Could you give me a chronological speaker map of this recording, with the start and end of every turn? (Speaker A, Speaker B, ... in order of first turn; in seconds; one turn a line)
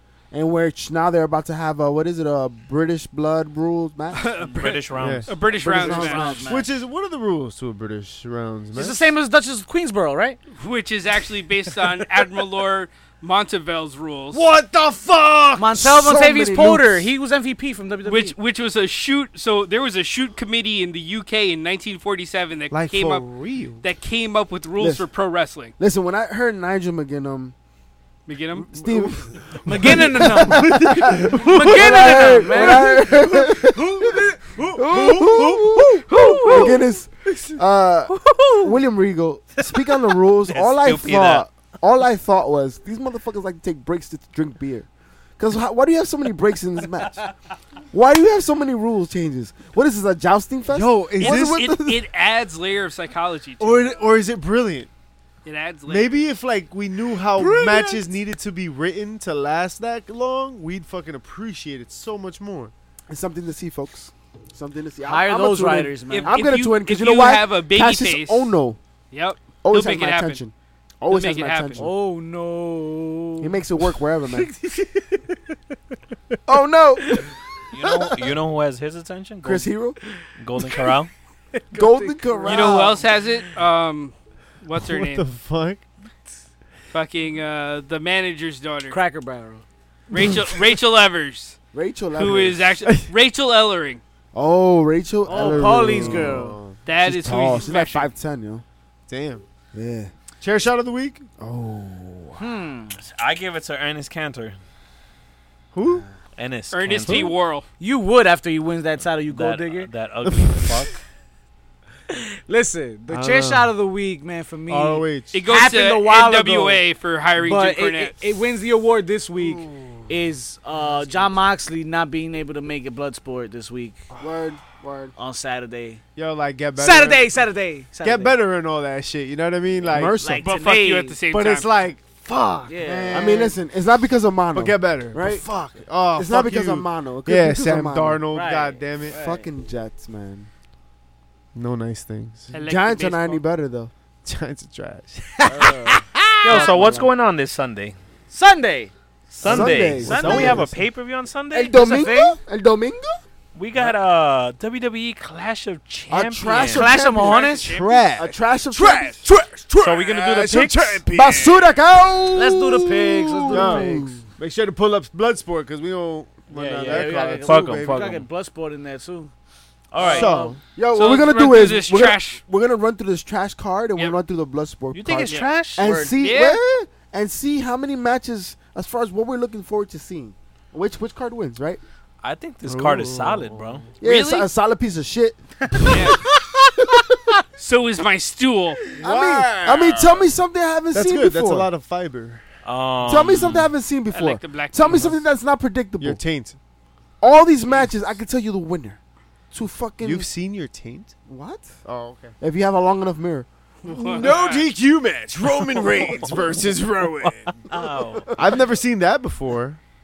Speaker A: 0.3-4.3
Speaker B: 4.1-6.5
Speaker C: 4.4-5.4
Speaker D: 5.0-5.3
Speaker A: 5.5-6.6
Speaker E: 5.7-6.7
Speaker D: 6.4-9.1
Speaker E: 8.8-10.4
Speaker B: 10.6-14.5
Speaker D: 14.3-15.8
Speaker E: 15.6-18.4
Speaker A: 15.7-17.1
Speaker B: 18.0-23.2
Speaker D: 22.7-23.8
Speaker B: 23.8-25.7
Speaker A: 24.8-25.1
Speaker A: 25.8-27.5
Speaker B: 28.3-28.7
Speaker A: 28.7-34.1
Speaker D: 28.8-37.6
Speaker E: 29.6-33.1
Speaker A: 34.7-44.9
Speaker B: 36.1-36.7
Speaker C: 40.5-41.4
Speaker A: 45.4-47.2
Speaker A: 47.9-52.0
Speaker D: 50.7-51.6
Speaker B: 51.2-54.1
Speaker D: 53.6-54.9
Speaker B: 55.4-56.1
Speaker D: 55.9-62.7
Speaker E: 57.4-58.1
Speaker A: 63.1-68.8
Speaker E: 65.0-66.4
Speaker B: 66.1-68.5
Speaker B: 69.1-70.4
Speaker A: 69.6-71.9
Speaker B: 71.1-71.8
Speaker E: 71.8-73.6
Speaker A: 73.4-74.5
Speaker D: 74.7-75.0
Speaker A: 76.5-77.3
Speaker C: 77.7-79.7
Speaker A: 79.4-80.0
Speaker C: 80.4-81.1
Speaker E: 81.7-83.0
Speaker A: 81.7-83.0
Speaker B: 82.5-85.3
Speaker D: 84.8-85.8
Speaker B: 86.9-89.0
Speaker E: 88.9-89.6
Speaker B: 90.1-91.6
Speaker D: 90.2-90.6
Speaker A: 91.7-92.7
Speaker B: 92.2-94.0
Speaker D: 92.8-93.1
Speaker A: 94.3-96.4
Speaker E: 95.3-96.6
Speaker D: 95.3-96.8
Speaker B: 96.8-98.1
Speaker A: 97.0-98.6
Speaker D: 99.1-99.4
Speaker A: 99.7-100.1
Speaker D: 100.4-101.3
Speaker A: 101.4-102.5
Speaker E: 102.4-103.0
Speaker C: 103.0-104.6
Speaker D: 105.7-106.1
Speaker C: 106.4-107.3
Speaker B: 106.7-107.7
Speaker E: 107.8-109.9
Speaker C: 109.3-111.0
Speaker D: 110.3-110.8
Speaker E: 112.1-116.8
Speaker D: 113.1-113.7
Speaker D: 114.7-115.4
Speaker B: 115.3-118.2
Speaker E: 117.4-124.1
Speaker D: 119.4-120.1
Speaker D: 120.9-121.3
Speaker A: 124.2-125.1
Speaker E: 125.2-126.0
Speaker D: 126.2-127.3
Speaker E: 126.8-128.4
Speaker D: 128.0-130.2
Speaker A: 129.9-130.5
Speaker E: 130.2-131.2
Speaker B: 130.4-131.7
Speaker D: 131.3-133.6
Speaker E: 132.7-133.5
Speaker A: 133.1-135.5
Speaker D: 134.5-139.2
Speaker A: 136.1-138.2
Speaker E: 138.3-139.5
Speaker A: 139.1-140.5
Speaker D: 141.6-142.5
Speaker B: 142.5-143.4
Speaker A: 142.6-143.9
Speaker D: 144.2-146.7
Speaker E: 145.4-146.1
Speaker C: 146.4-148.0
Speaker A: 146.5-147.1
Speaker E: 148.3-148.9
Speaker C: 149.3-151.9
Speaker A: 149.4-150.7
Speaker D: 149.4-150.8
Speaker E: 150.0-150.6
Speaker A: 151.5-153.2
Speaker E: 151.7-152.4
Speaker C: 153.6-156.9
Speaker A: 156.1-157.6
Speaker E: 156.6-157.7
Speaker B: 157.1-158.1
Speaker D: 157.6-161.6
Speaker A: 158.2-159.2
Speaker C: 159.8-161.1
Speaker A: 161.1-162.9
Speaker E: 162.3-164.1
Speaker D: 163.0-168.2
Speaker A: 163.5-164.2
Speaker C: 166.5-168.2
Speaker E: 166.8-169.3
Speaker E: 169.9-170.6
Speaker C: 170.0-170.2
Speaker D: 170.0-170.6
Speaker A: 170.7-181.8
Speaker B: 170.9-172.4
Speaker C: 174.9-175.9
Speaker E: 175.8-176.2
Speaker B: 176.1-176.6
Speaker C: 182.2-183.9
Speaker D: 182.7-183.9
Speaker B: 184.0-184.5
Speaker A: 184.0-185.9
Speaker E: 185.8-186.2
Speaker B: 185.8-186.2
Speaker B: 187.6-188.8
Speaker D: 188.9-190.3
Speaker A: 189.0-191.7
Speaker D: 190.9-192.4
Speaker C: 192.7-193.7
Speaker A: 193.1-196.2
Speaker B: 194.1-195.1
Speaker D: 196.0-196.6
Speaker A: 197.2-199.0
Speaker A: 199.5-200.3
Speaker D: 200.0-201.1
Speaker A: 201.3-201.8
Speaker D: 201.8-202.3
Speaker A: 202.4-203.5
Speaker B: 203.8-204.7
Speaker D: 203.9-207.6
Speaker C: 207.7-208.3
Speaker A: 208.1-208.6
Speaker D: 208.3-209.8